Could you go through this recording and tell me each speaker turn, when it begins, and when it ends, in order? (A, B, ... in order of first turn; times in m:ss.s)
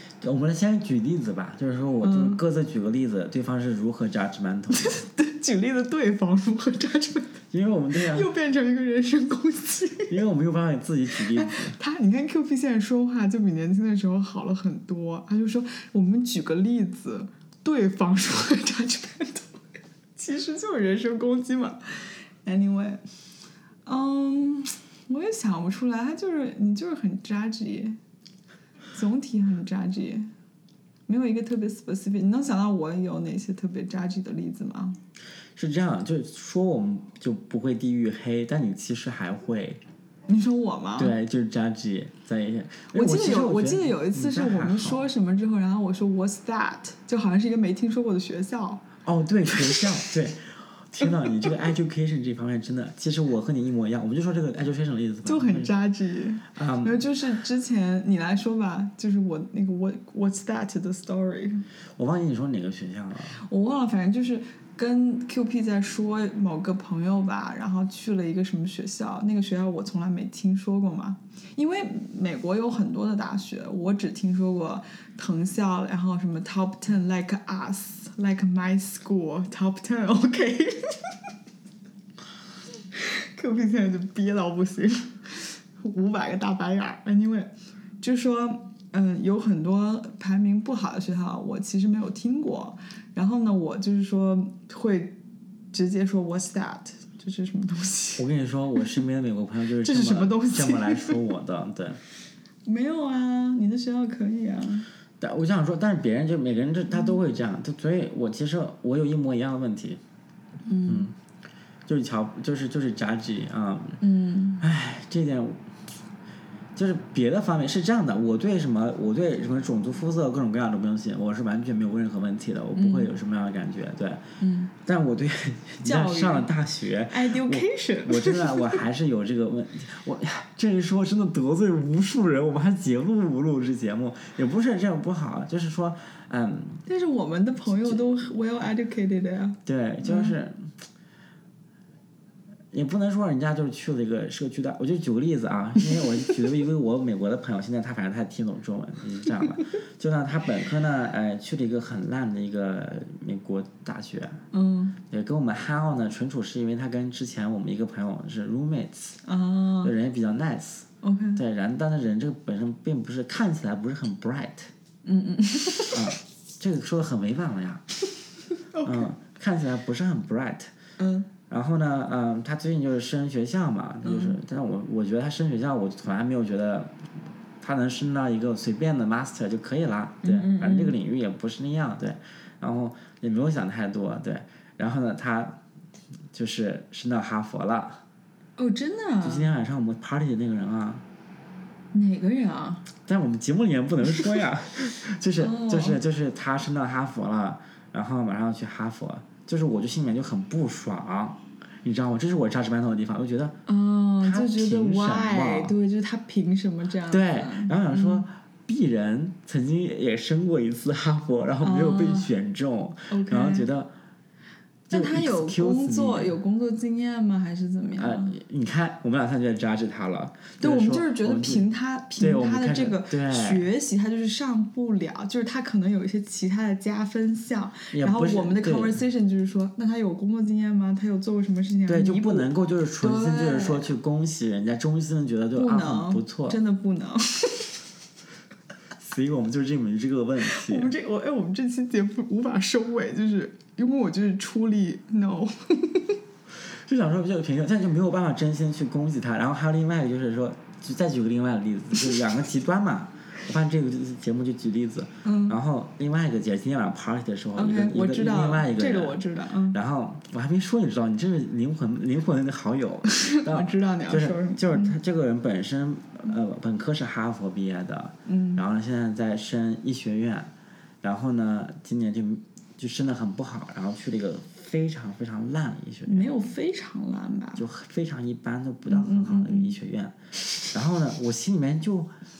0:00.2-0:05.0 A
0:02.0-0:02.4 B
0:04.7-0:07.4 B
0:07.5-0:08.3 A
0:08.0-0:10.2 B
0:10.1-0:11.8 A
0:11.2-0:19.6 B
0:20.2-0:23.0 B
0:23.9-0:28.0 B
0:28.9-0:30.3 B
0:31.1-0:35.0 B
0:35.6-0:39.8 A
0:40.3-0:41.1 B
0:41.0-0:45.0 A
0:42.9-0:48.8 B
0:49.0-0:55.7 A
0:49.5-0:50.0 B
0:51.1-0:51.5 B
0:55.2-1:01.6 B
0:56.5-0:57.0 A
1:02.0-1:03.4 A
1:03.4-1:20.8 B
1:22.9-1:27.5 B
1:28.0-1:35.2 B
1:35.7-1:38.2 B
1:38.2-1:42.0 A
1:39.8-1:41.2 B
1:42.7-1:44.9 B
1:45.2-1:50.0 A
1:50.7-1:51.1 B
1:50.9-1:51.1 A
1:51.9-1:54.0 A
1:54.0-1:54.6 B
1:54.6-1:55.7 A
1:56.8-2:04.2 A
2:02.8-2:03.1 B
2:04.4-2:04.7 B
2:04.8-2:16.9 A
2:05.8-2:06.5 B
2:07.1-2:08.8 B
2:16.9-2:20.4 B
2:17.7-2:18.0 A
2:19.6-2:20.7 A
2:22.7-2:34.4 A
2:34.5-2:35.0 B
2:35.1-2:39.2 A
2:39.2-2:39.9 B
2:39.8-2:44.7 A
2:41.0-2:41.4 B
2:45.0-2:46.1 B
2:45.9-2:47.8 A
2:48.7-2:49.1 B
2:48.8-2:50.7 A
2:51.0-2:51.3 B
2:51.5-2:57.1 A
2:54.0-2:54.4 B
2:57.6-3:05.6 A
3:00.2-3:01.0 B
3:06.3-3:08.0 A
3:08.6-3:09.5 B
3:09.2-3:11.0 A
3:11.9-3:12.9 B
3:13.0-3:23.6 A
3:15.4-3:16.0 B
3:23.7-3:28.2 B
3:24.2-3:25.7 A
3:27.1-3:33.9 A
3:31.6-3:32.3 B
3:33.1-3:33.7 B
3:34.9-3:36.4 A
3:34.9-3:38.4 B
3:38.0-3:41.6 A
3:40.6-3:53.9 B
3:42.2-3:43.7 A
3:47.9-3:49.0 A
3:51.9-3:56.6 A
3:55.5-3:57.8 B
3:59.0-4:00.9 A
4:00.4-4:06.2 B
4:06.6-4:30.5 A
4:15.2-4:15.6 B
4:17.6-4:19.8 B
4:23.1-4:25.0 B
4:28.2-4:28.6 B
4:31.0-4:36.3 A
4:36.1-4:37.6 B
4:37.6-4:40.1 A
4:38.9-4:39.8 B
4:40.7-4:42.1 A